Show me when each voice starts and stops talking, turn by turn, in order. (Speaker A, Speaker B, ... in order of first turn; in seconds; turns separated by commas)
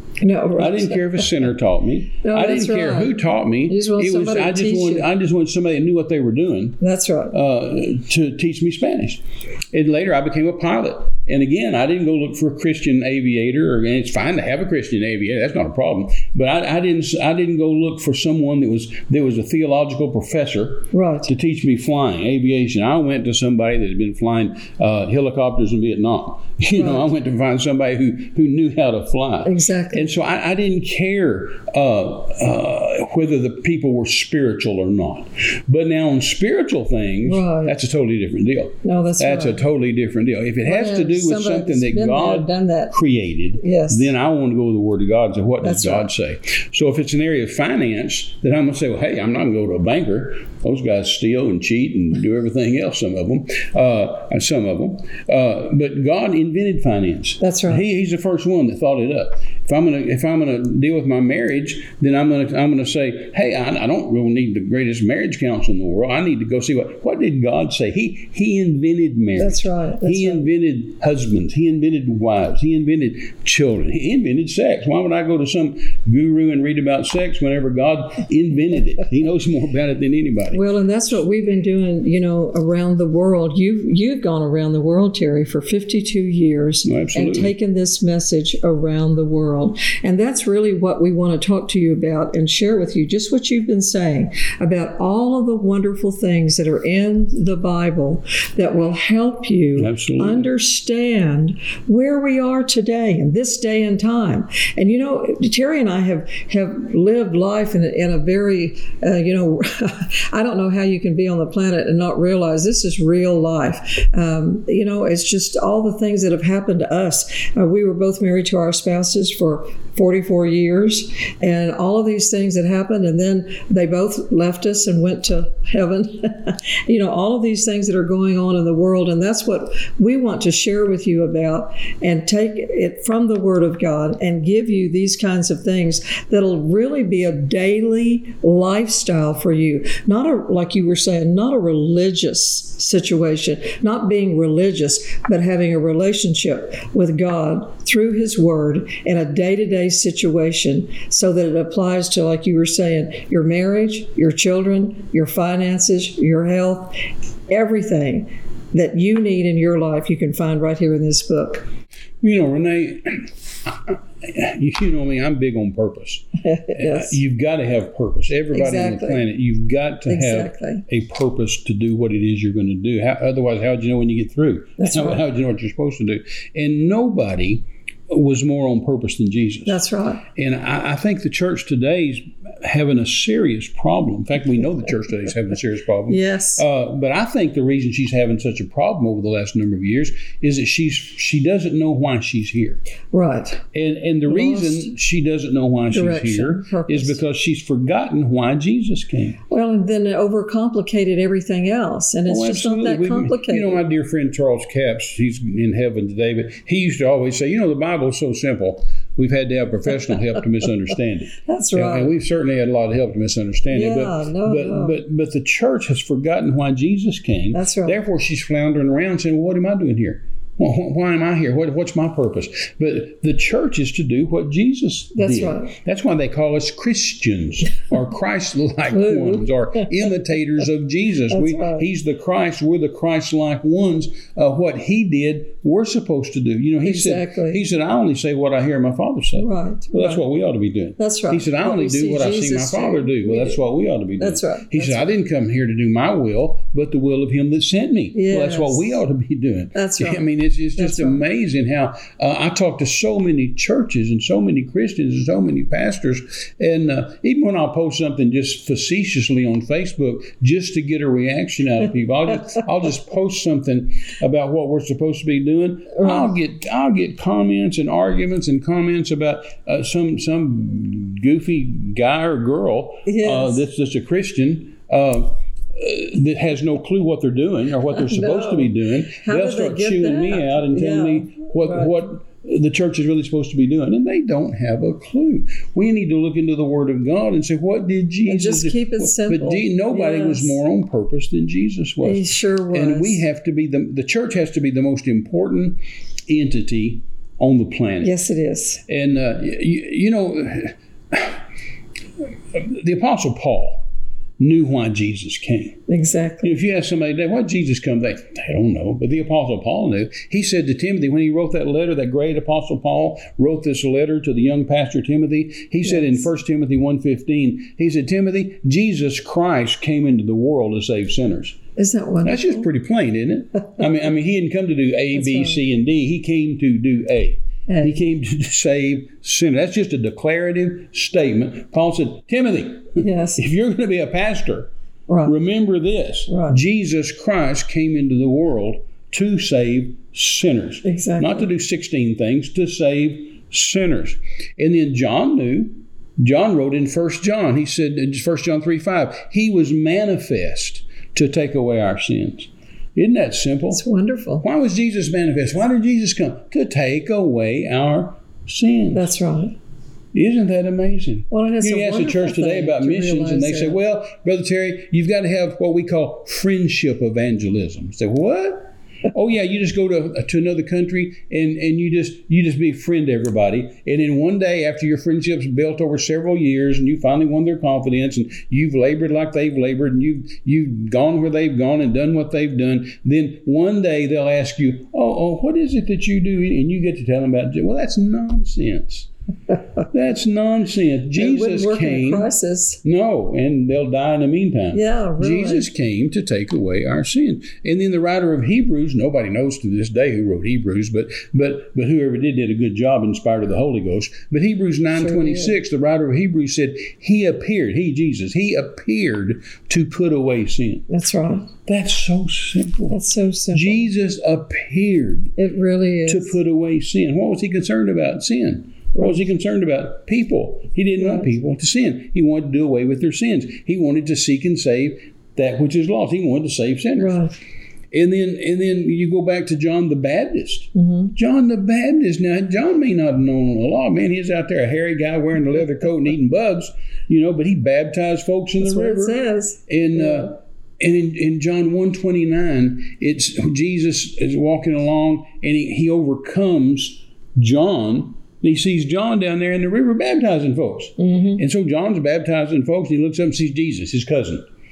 Speaker A: 0.2-1.0, Speaker B: 0.6-6.8, Speaker A: 2.2-5.1, Speaker A: 6.8-7.4, Speaker B: 7.3-80.6, Speaker A: 20.9-21.3, Speaker A: 26.8-27.1, Speaker A: 29.4-30.1, Speaker A: 37.2-37.8, Speaker A: 38.8-39.6, Speaker A: 40.6-43.0, Speaker A: 43.6-44.1, Speaker A: 45.6-46.1, Speaker A: 57.4-57.8, Speaker A: 69.4-70.5, Speaker A: 80.5-156.9, Speaker B: 86.8-87.5, Speaker B: 99.8-100.5, Speaker A: 157.5-161.7, Speaker B: 162.2-179.8, Speaker A: 166.4-167.2, Speaker A: 168.5-169.2, Speaker A: 170.1-170.8, Speaker A: 174.8-175.2, Speaker A: 179.7-180.2, Speaker B: 180.4-192.8, Speaker A: 186.1-186.7, Speaker A: 193.1-193.6, Speaker B: 193.7-199.4, Speaker A: 194.3-194.9, Speaker A: 195.9-197.2, Speaker A: 199.5-203.8, Speaker B: 202.3-298.1, Speaker A: 211.4-212.1, Speaker A: 213.7-215.0, Speaker A: 217.5-218.0, Speaker A: 225.2-225.8, Speaker A: 228.9-229.9, Speaker A: 231.3-231.9, Speaker A: 236.8-237.6, Speaker A: 239.4-240.2, Speaker A: 241.0-243.6, Speaker A: 244.2-245.1, Speaker A: 248.2-249.0, Speaker A: 249.8-250.2, Speaker A: 250.8-251.2, Speaker A: 266.0-266.3, Speaker A: 273.1-273.6, Speaker A: 277.9-281.9, Speaker A: 288.3-290.6, Speaker A: 292.0-293.2, Speaker A: 298.0-298.8, Speaker B: 298.9-301.4, Speaker B: 302.5-303.8, Speaker B: 304.4-305.8, Speaker A: 305.9-306.5, Speaker B: 306.4-321.6, Speaker A: 321.8-322.6, Speaker B: 322.2-334.7, Speaker A: 325.1-325.6, Speaker A: 327.7-327.9, Speaker A: 333.0-333.4, Speaker A: 335.1-335.3, Speaker B: 335.2-353.8, Speaker A: 336.3-336.6, Speaker A: 340.8-341.5, Speaker A: 353.7-354.4, Speaker B: 354.4-359.1, Speaker A: 358.9-359.6, Speaker B: 360.1-389.1, Speaker A: 361.3-363.8, Speaker B: 389.9-392.3, Speaker A: 391.1-392.8, Speaker B: 392.8-410.9, Speaker A: 394.7-395.7, Speaker A: 404.9-405.6, Speaker A: 410.9-411.5, Speaker B: 411.7-413.0, Speaker A: 412.9-413.9, Speaker B: 413.5-415.3, Speaker A: 415.4-416.4, Speaker B: 416.1-427.2, Speaker A: 421.0-421.3, Speaker A: 427.0-427.4, Speaker B: 427.9-454.4, Speaker A: 430.8-431.1, Speaker A: 438.6-440.2, Speaker A: 451.0-451.4